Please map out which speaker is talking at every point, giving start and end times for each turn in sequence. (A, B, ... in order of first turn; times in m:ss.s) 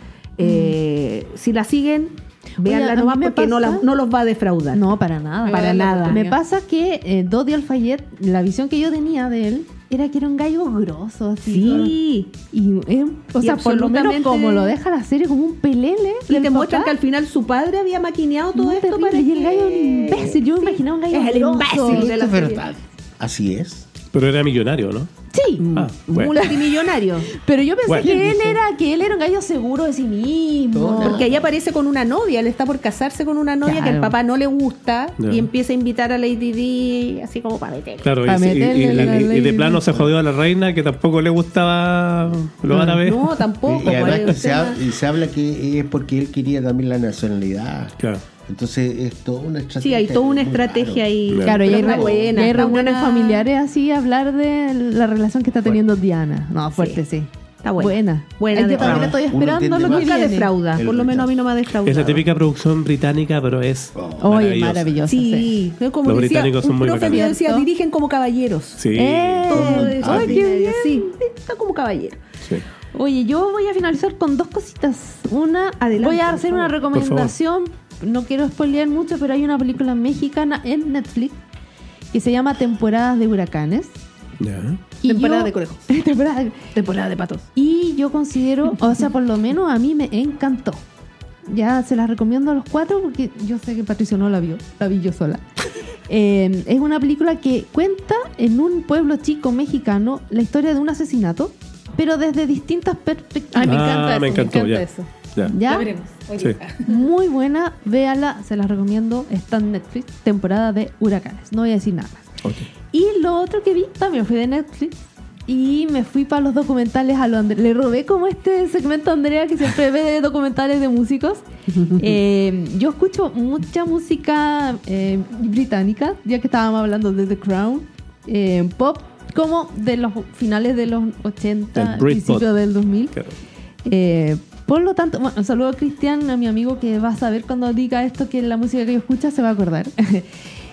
0:00.4-0:04.9 A
0:00.4-0:00.8 B
0:02.6-0:03.9 B
0:04.7-0:12.0 B
0:05.4-0:06.4 C
0:05.5-0:06.2 A
0:11.4-0:12.3 A
0:12.5-0:16.9 B
0:13.4-0:14.8 A
0:16.3-0:22.6 A
0:18.6-0:22.1 B
0:21.8-0:23.9 D
0:24.1-0:25.1 E
0:25.3-0:25.7 B
0:25.6-0:27.3 A
0:25.7-0:26.4 E
0:26.3-0:31.2 B
0:27.9-0:28.2 E
0:28.2-0:28.6 A
0:30.7-0:31.5 D
0:31.0-0:38.1 A
0:33.6-0:34.2 B
0:35.2-0:35.5 E
0:38.0-0:44.4 E
0:38.3-0:39.8 B
0:42.7-0:43.0 B
0:43.0-0:44.8 A
0:43.7-0:48.0 D
0:48.5-0:52.6 D
0:49.8-0:53.5 A
0:51.3-0:51.6 E
0:51.4-1:00.5 B
0:56.8-0:57.0 A
0:57.6-0:59.3 A
0:58.8-1:01.5 D
0:59.8-1:02.2 A
1:01.8-1:05.0 E
1:04.0-1:04.5 D
1:04.2-1:05.6 B
1:05.0-1:08.8 A
1:06.0-1:07.3 E
1:06.9-1:07.7 B
1:08.8-1:09.6 E
1:08.9-1:11.2 B
1:09.5-1:12.2 A
1:09.5-1:10.4 D
1:12.9-1:21.4 B
1:15.8-1:16.8 A
1:16.9-1:17.3 E
1:22.1-1:24.0 B
1:24.4-1:24.8 E
1:25.0-1:26.7 B
1:25.1-1:25.8 C
1:26.7-1:27.5 C
1:27.6-1:30.8 B
1:31.5-1:35.4 B
1:36.1-1:43.9 B
1:43.5-1:45.1 C
1:43.6-1:45.5 E
1:45.5-1:45.9 B
1:45.6-1:47.0 C
1:46.8-1:52.3 B
1:52.9-2:01.4 B
2:02.0-2:13.2 B
2:11.8-2:12.5 E
2:13.8-2:20.3 B